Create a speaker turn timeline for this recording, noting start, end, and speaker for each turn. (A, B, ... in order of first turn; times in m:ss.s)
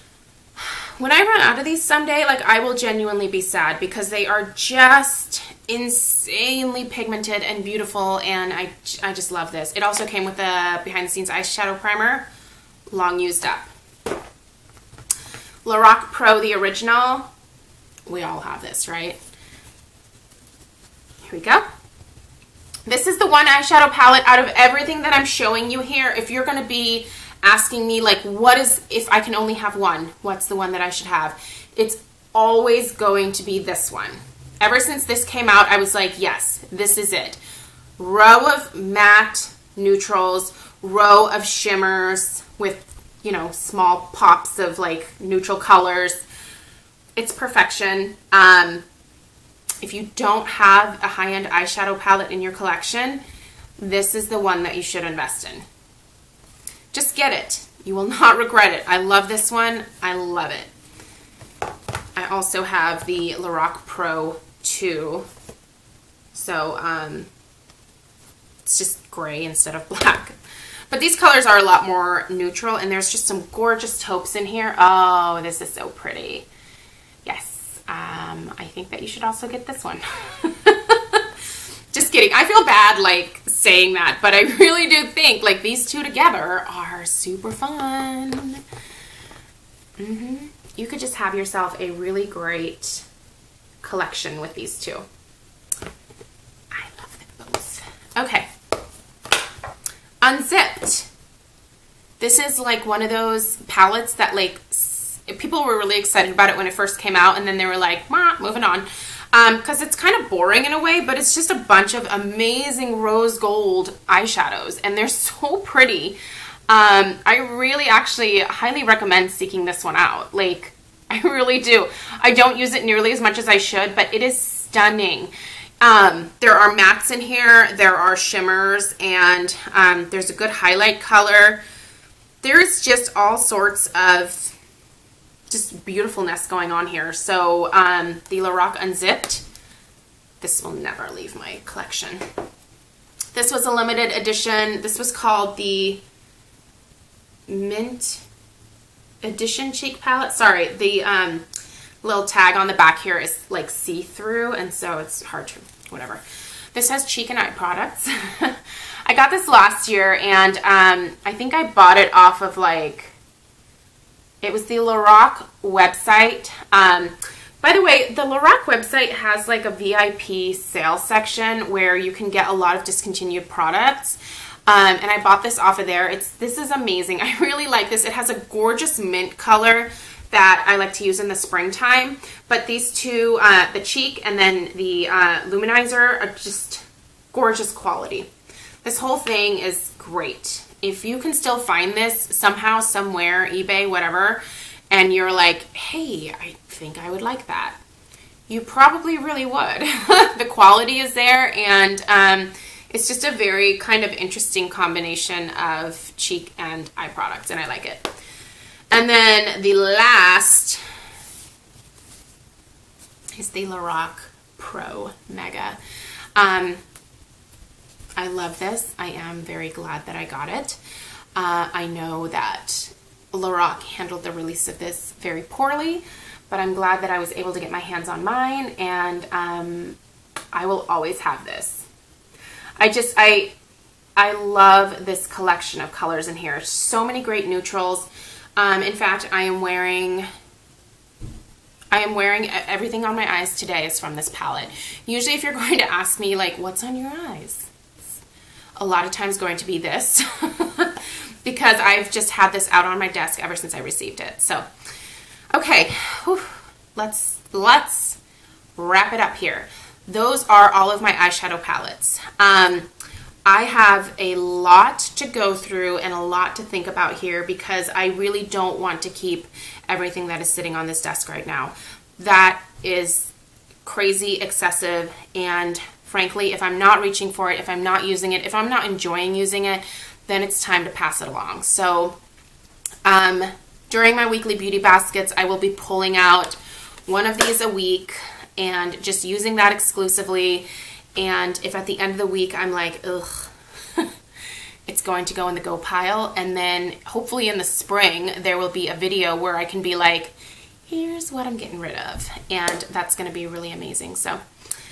0:00.6-0:12.3 A
0:12.9-0:13.7 A
0:15.6-0:17.3 A
0:18.1-0:19.2 A
0:21.2-0:21.6 A
0:22.9-0:37.4 A
0:38.0-0:46.2 A
0:47.2-0:48.8 A
0:49.8-0:53.2 A
0:53.8-0:55.6 A
0:56.9-1:00.7 A
1:02.2-1:05.3 A
1:06.3-1:07.3 A
1:08.6-1:10.4 A
1:10.9-1:16.5 A
1:17.2-1:21.2 A
1:21.9-1:28.6 A
1:30.0-1:33.1 A
1:33.8-1:35.0 A
1:36.7-1:38.5 A
1:40.2-1:41.1 A
1:42.2-2:11.6 A
2:12.4-2:14.6 A
2:15.5-2:19.4 A
2:20.4-2:22.2 A
2:23.3-2:26.0 A
2:27.5-2:28.2 A
2:29.2-2:31.4 A
2:32.0-2:36.2 A
2:36.7-2:43.2 A
2:44.4-3:08.3 A
3:08.8-3:17.8 A
3:18.5-3:28.1 A
3:28.9-3:30.8 A
3:33.4-3:35.8 A
3:36.4-3:36.8 A
3:38.2-3:40.8 A
3:41.4-3:50.0 A
3:50.5-3:51.9 A
3:52.8-3:53.6 A
3:54.2-4:00.3 A
4:01.9-4:07.7 A
4:08.8-4:14.7 A
4:15.5-4:18.2 A
4:18.8-4:22.9 A
4:23.5-4:33.3 A
4:33.8-4:42.2 A
4:43.0-4:54.1 A
4:54.9-5:00.3 A
5:00.9-5:04.4 A